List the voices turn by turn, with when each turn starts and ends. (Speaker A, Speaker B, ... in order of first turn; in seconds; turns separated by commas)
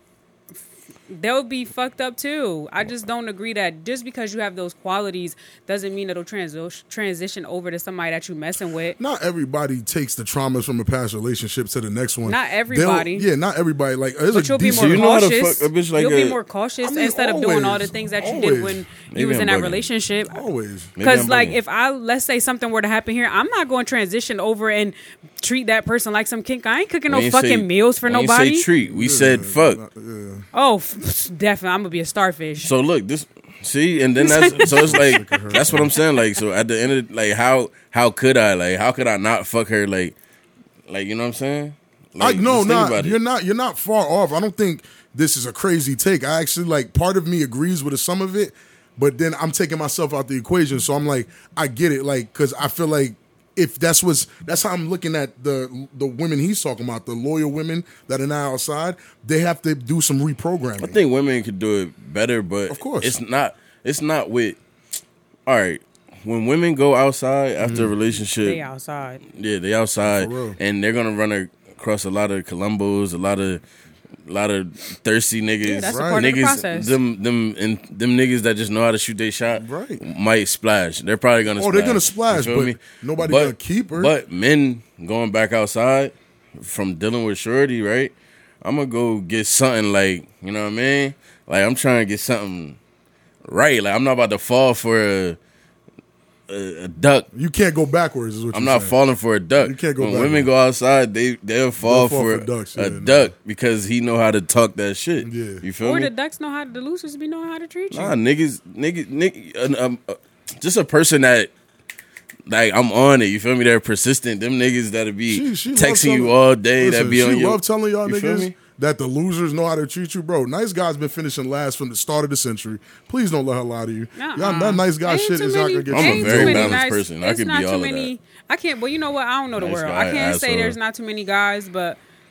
Speaker A: 1.1-9.0, Speaker B: 9.0-15.1, Speaker A: 12.2-13.3, Speaker A: 14.3-20.4, Speaker C: 14.7-16.4, Speaker B: 16.8-18.9, Speaker C: 19.1-19.9, Speaker B: 20.3-20.9, Speaker C: 21.0-21.6, Speaker A: 21.0-28.7, Speaker C: 27.1-29.8, Speaker B: 28.9-30.5, Speaker A: 30.5-32.7, Speaker C: 32.6-40.1, Speaker A: 34.2-35.2, Speaker B: 34.5-35.9, Speaker C: 40.9-43.2, Speaker B: 42.2-61.0, Speaker C: 60.8-64.6, Speaker B: 62.7-63.2, Speaker C: 65.5-68.6, Speaker B: 67.6-68.0, Speaker A: 68.4-69.2, Speaker C: 69.3-73.6, Speaker B: 70.0-70.6, Speaker C: 74.3-92.8, Speaker A: 75.6-77.0, Speaker B: 75.8-76.3, Speaker B: 79.6-80.0, Speaker B: 81.6-84.1, Speaker C: 93.5-95.4, Speaker C: 96.5-97.3, Speaker B: 97.3-99.0, Speaker C: 98.5-106.1, Speaker B: 99.6-100.5, Speaker B: 101.8-103.3, Speaker B: 105.2-105.6, Speaker A: 105.8-108.2, Speaker C: 107.9-111.5, Speaker C: 112.5-118.5, Speaker B: 115.3-126.8, Speaker A: 124.2-132.0, Speaker C: 125.9-128.1, Speaker C: 129.6-130.8